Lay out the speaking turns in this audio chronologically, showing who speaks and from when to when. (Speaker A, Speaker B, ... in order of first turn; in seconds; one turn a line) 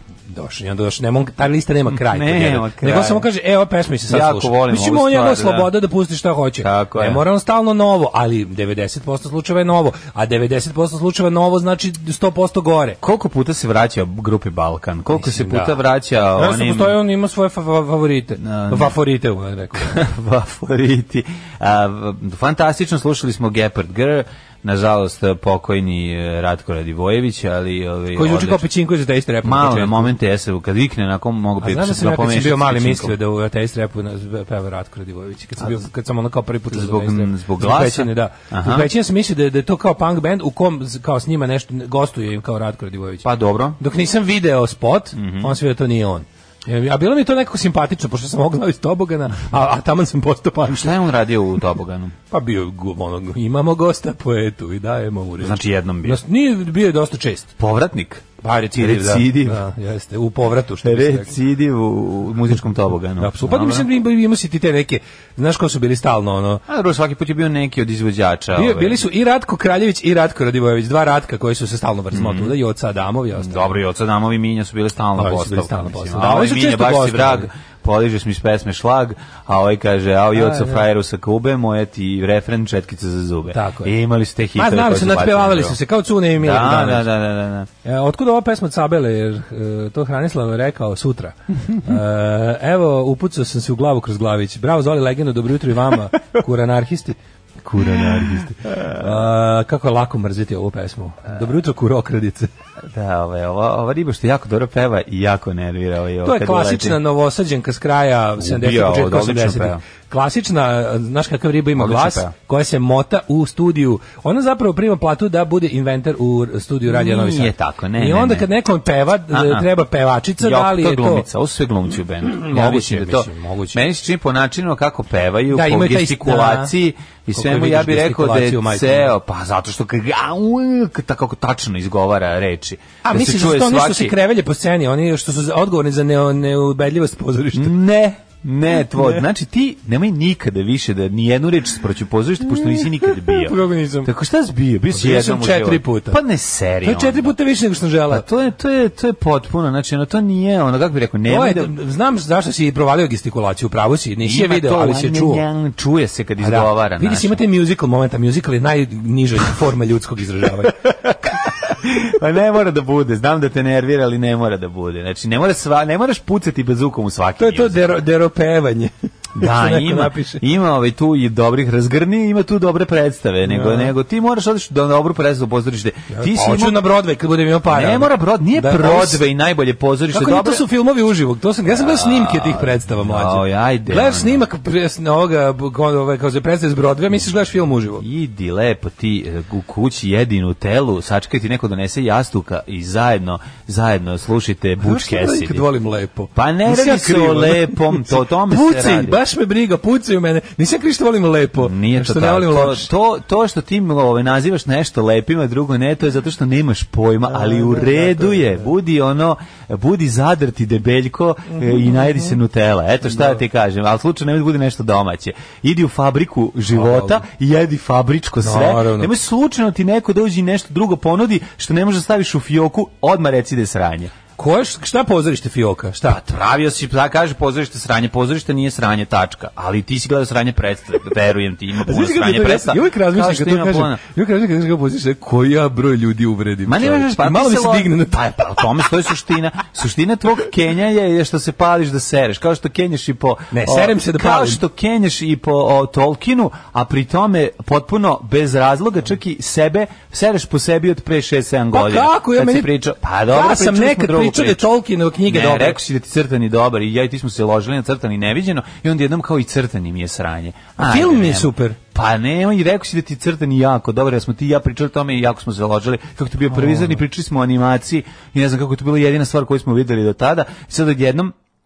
Speaker A: 0.3-13.0
Speaker B: 1.9-3.3
Speaker B: 4.1-5.7
Speaker B: 6.6-7.2
Speaker B: 13.0-17.0
Speaker A: 15.1-15.8
Speaker A: 16.3-19.9
Speaker B: 18.4-18.9
Speaker B: 19.7-28.7
Speaker A: 28.1-30.1
Speaker B: 29.4-33.2
Speaker A: 31.6-43.2
Speaker B: 36.7-38.9
Speaker B: 43.2-43.8
Speaker A: 43.8-50.9
Speaker B: 45.1-45.5
Speaker B: 50.7-52.1
Speaker A: 52.3-57.5
Speaker B: 55.4-56.2
Speaker B: 57.6-59.6
Speaker A: 58.4-61.3
Speaker B: 60.8-63.9
Speaker A: 63.2-66.6
Speaker B: 66.7-69.0
Speaker A: 68.5-73.8
Speaker B: 72.1-72.5
Speaker B: 73.3-85.8
Speaker A: 75.2-77.5
Speaker A: 80.3-80.8
Speaker A: 83.5-83.9
Speaker A: 84.5-87.1
Speaker B: 86.3-87.7
Speaker A: 87.8-102.5
Speaker B: 102.8-107.0
Speaker A: 106.2-121.2
Speaker B: 108.4-109.8
Speaker B: 111.8-112.3
Speaker B: 116.9-118.5
Speaker B: 119.3-119.7
Speaker B: 120.4-134.2
Speaker A: 122.3-123.8
Speaker A: 125.5-126.7
Speaker A: 127.3-129.1
Speaker A: 133.0-137.7
Speaker B: 137.5-147.3
Speaker A: 139.0-139.2
Speaker A: 143.2-144.1
Speaker A: 144.9-146.2
Speaker A: 146.8-148.2
Speaker B: 148.1-151.8
Speaker A: 151.3-155.4
Speaker B: 154.2-157.4
Speaker A: 156.4-160.8
Speaker B: 160.8-168.0
Speaker A: 167.4-170.4
Speaker B: 169.3-176.9
Speaker A: 173.4-173.9
Speaker A: 176.1-179.2
Speaker B: 177.7-180.6
Speaker A: 180.1-188.0
Speaker B: 181.7-184.4
Speaker B: 188.0-195.7
Speaker A: 194.8-202.9
Speaker B: 196.3-199.2
Speaker B: 201.6-224.1
Speaker A: 207.3-208.6
Speaker A: 211.6-212.3
Speaker A: 216.7-217.2
Speaker A: 218.4-219.1
Speaker A: 224.4-226.2
Speaker B: 226.1-234.0
Speaker A: 231.8-238.3
Speaker B: 236.7-254.7
Speaker A: 243.5-244.6
Speaker A: 251.7-252.7
Speaker A: 253.3-255.8
Speaker B: 255.3-271.3
Speaker A: 260.8-261.8
Speaker A: 266.5-267.0